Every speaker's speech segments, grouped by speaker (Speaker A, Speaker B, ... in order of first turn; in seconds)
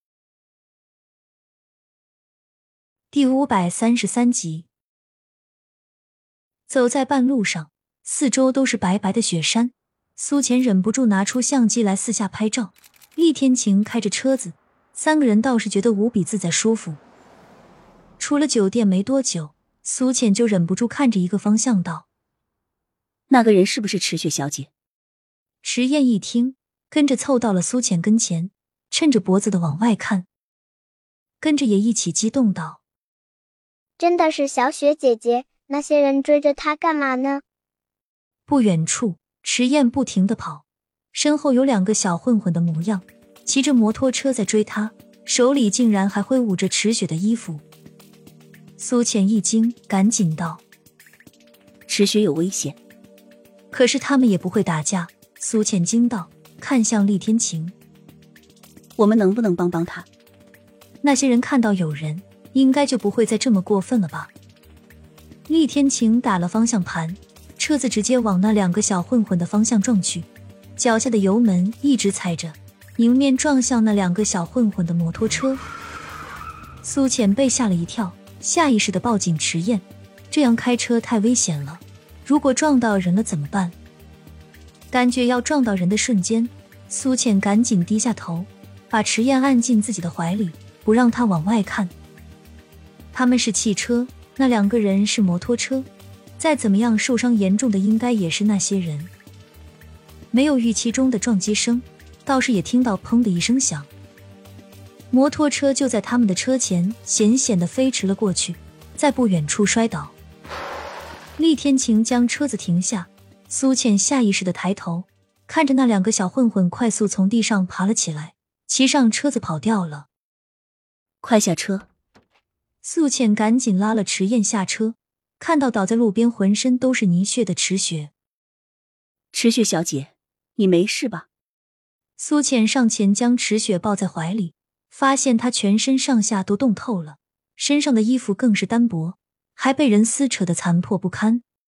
Speaker A: 3.1-4.7, 6.7-17.0, 18.2-22.1, 25.6-30.3, 31.4-32.8, 38.5-47.6, 48.8-50.6, 53.7-57.7, 61.0-64.3, 65.5-75.6, 76.8-83.7, 84.9-91.9, 93.1-99.1, 100.3-103.9, 105.1-110.1, 111.4-120.1, 122.8-128.1, 132.2-141.4
Speaker B: 23.3-24.7, 51.9-52.8, 59.0-60.1, 121.2-121.9, 129.3-131.3
Speaker C: 34.0-37.4